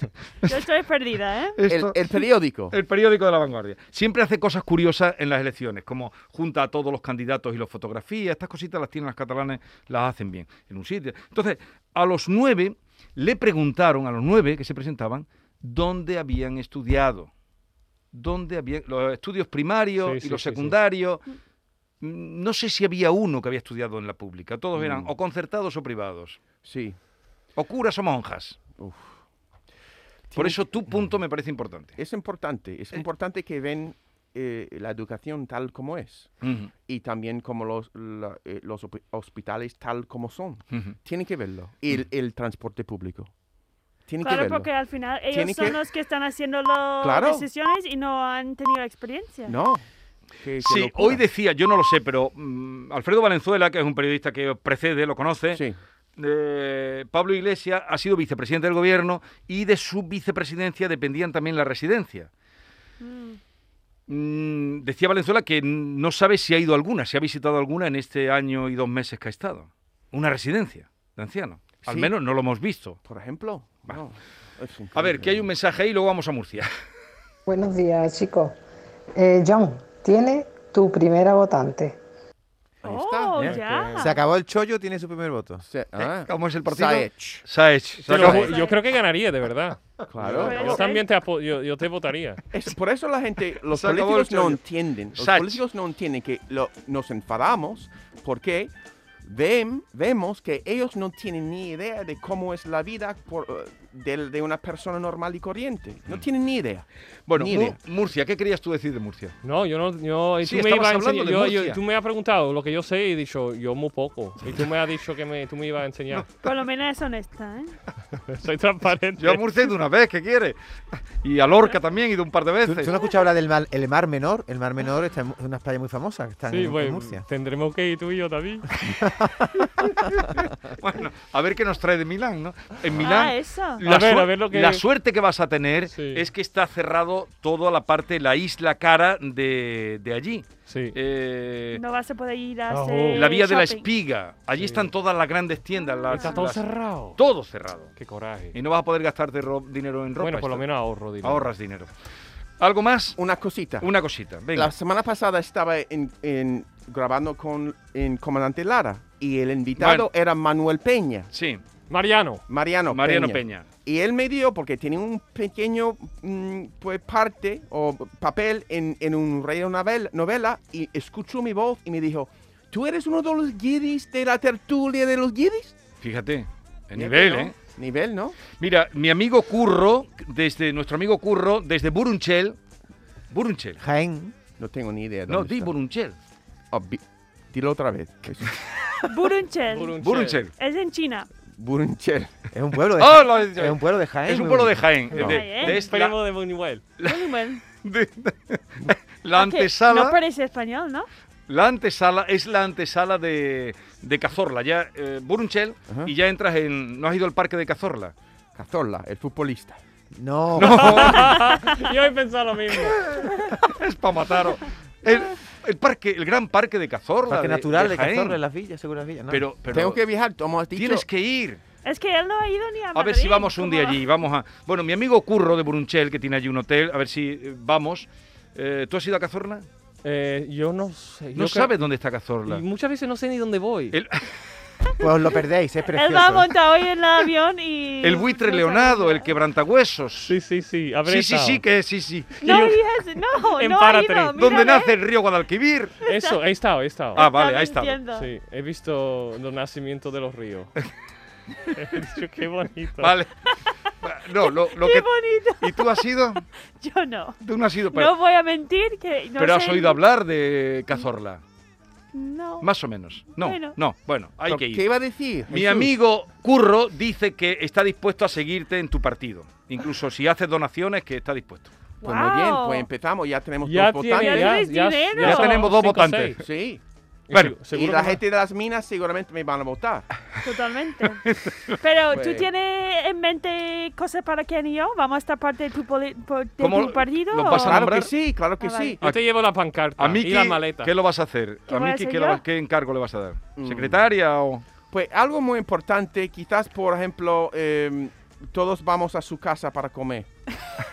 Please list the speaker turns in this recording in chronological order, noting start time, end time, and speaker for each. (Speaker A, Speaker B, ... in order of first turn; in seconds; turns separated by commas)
Speaker A: 0.4-1.6, Speaker B: 1.6-2.0, Speaker C: 1.7-2.7, Speaker B: 2.7-17.3, Speaker B: 18.1-21.2, Speaker D: 20.0-20.8, Speaker B: 22.0-26.4, Speaker C: 24.7-25.1, Speaker C: 26.6-27.0, Speaker B: 27.6-28.6, Speaker C: 28.8-29.2, Speaker C: 30.3-30.6, Speaker B: 30.4-31.9, Speaker C: 32.0-43.3, Speaker B: 36.4-36.7, Speaker C: 44.1-44.7, Speaker A: 44.2-49.5, Speaker C: 45.3-45.8, Speaker C: 47.0-47.5, Speaker C: 49.5-49.8, Speaker C: 50.4-51.2, Speaker B: 50.6-55.6, Speaker B: 56.2-62.3, Speaker A: 63.0-63.4, Speaker B: 64.1-73.0, Speaker C: 71.8-72.1, Speaker C: 73.0-75.5, Speaker B: 74.9-76.7, Speaker E: 77.5-78.6, Speaker E: 79.1-82.0, Speaker C: 82.8-83.5, Speaker A: 82.8-84.2, Speaker F: 83.4-85.6, Speaker D: 83.4-84.0, Speaker C: 85.6-87.4, Speaker B: 86.0-88.5, Speaker D: 88.0-92.4, Speaker A: 88.1-88.8, Speaker C: 90.1-90.8, Speaker B: 90.2-90.7, Speaker A: 90.4-91.0, Speaker C: 92.5-98.7, Speaker B: 93.6-94.6, Speaker B: 95.1-95.6, Speaker C: 99.2-107.8, Speaker B: 107.3-109.3, Speaker D: 109.4-116.2, Speaker B: 110.4-111.8, Speaker B: 116.1-116.5, Speaker A: 116.4-117.8, Speaker D: 118.2-119.4, Speaker B: 119.2-122.9, Speaker F: 122.6-127.2, Speaker D: 126.5-128.7, Speaker F: 129.0-129.7, Speaker B: 129.9-141.8, Speaker A: 133.0-133.8, Speaker D: 133.8-134.8, Speaker D: 135.9-136.2, Speaker D: 140.7-140.9, Speaker A: 141.7-143.8, Speaker D: 142.7-143.3, Speaker B: 143.1-147.9, Speaker D: 144.6-144.9, Speaker A: 145.8-146.5, Speaker D: 146.1-147.2, Speaker D: 148.0-148.6, Speaker B: 148.5-150.7, Speaker D: 150.2-151.5, Speaker B: 151.2-151.9, Speaker B: 152.6-153.2, Speaker C: 153.2-153.9, Speaker B: 153.8-154.7, Speaker C: 154.5-161.3, Speaker B: 159.8-160.1, Speaker B: 161.3-161.6, Speaker D: 161.9-162.4, Speaker C: 162.5-175.7, Speaker B: 162.9-163.7, Speaker B: 176.0-177.5, Speaker C: 176.9-178.4, Speaker B: 178.5-182.6, Speaker B: 183.3-183.8, Speaker F: 183.8-184.3, Speaker C: 184.6-185.7, Speaker B: 185.3-186.2, Speaker C: 186.7-188.6, Speaker A: 189.1-190.0, Speaker D: 189.7-190.4, Speaker B: 190.0-190.5, Speaker A: 190.5-191.3, Speaker C: 191.5-192.4, Speaker F: 192.5-195.4, Speaker B: 193.0-196.2, Speaker D: 195.2-196.8, Speaker A: 195.2-195.8, Speaker B: 197.0-200.2, Speaker A: 197.0-197.6, Speaker A: 199.4-201.1, Speaker B: 201.5-208.1, Speaker C: 208.5-209.8, Speaker F: 210.1-211.2, Speaker B: 210.6-211.6, Speaker D: 211.0-213.2, Speaker B: 212.8-218.4, Speaker F: 217.3-219.4, Speaker B: 219.3-220.0, Speaker C: 219.7-221.0, Speaker B: 220.7-221.6, Speaker A: 221.8-224.0, Speaker B: 222.9-229.7, Speaker D: 230.0-231.8, Speaker B: 231.3-232.6, Speaker D: 232.4-234.0, Speaker B: 233.9-234.3, Speaker F: 235.0-236.5, Speaker A: 235.9-239.3, Speaker B: 238.0-240.3, Speaker D: 240.3-241.6, Speaker B: 241.1-242.4, Speaker D: 242.4-242.8, Speaker A: 242.4-245.0, Speaker D: 243.3-244.4, Speaker B: 244.3-246.0, Speaker A: 246.1-246.4, Speaker D: 246.1-247.2, Speaker A: 247.1-248.3, Speaker B: 247.2-248.0, Speaker D: 248.1-250.7, Speaker D: 251.7-253.1, Speaker B: 253.0-253.3, Speaker B: 254.0-256.4, Speaker A: 254.4-256.0, Speaker A: 256.8-257.4, Speaker B: 257.4-258.1, Speaker A: 257.9-260.0, Speaker B: 259.4-261.4, Speaker A: 262.1-262.7, Speaker B: 262.6-264.8, Speaker A: 263.3-263.8, Speaker C: 264.5-265.9, Speaker B: 265.5-271.7, Speaker A: 272.0-272.9, Speaker C: 272.0-274.6, Speaker D: 273.6-276.4, Speaker A: 274.1-275.6, Speaker B: 275.2-276.4, Speaker C: 276.4-276.8, Speaker D: 277.3-278.2, Speaker C: 277.7-280.1, Speaker A: 280.4-281.2, Speaker B: 281.2-281.8, Speaker A: 281.8-287.9, Speaker C: 282.1-282.5, Speaker B: 286.6-288.1, Speaker C: 287.4-289.0, Speaker A: 288.6-289.0, Speaker D: 289.0-290.9, Speaker B: 290.0-294.6, Speaker A: 291.7-292.4, Speaker C: 293.6-294.0, Speaker C: 294.9-300.3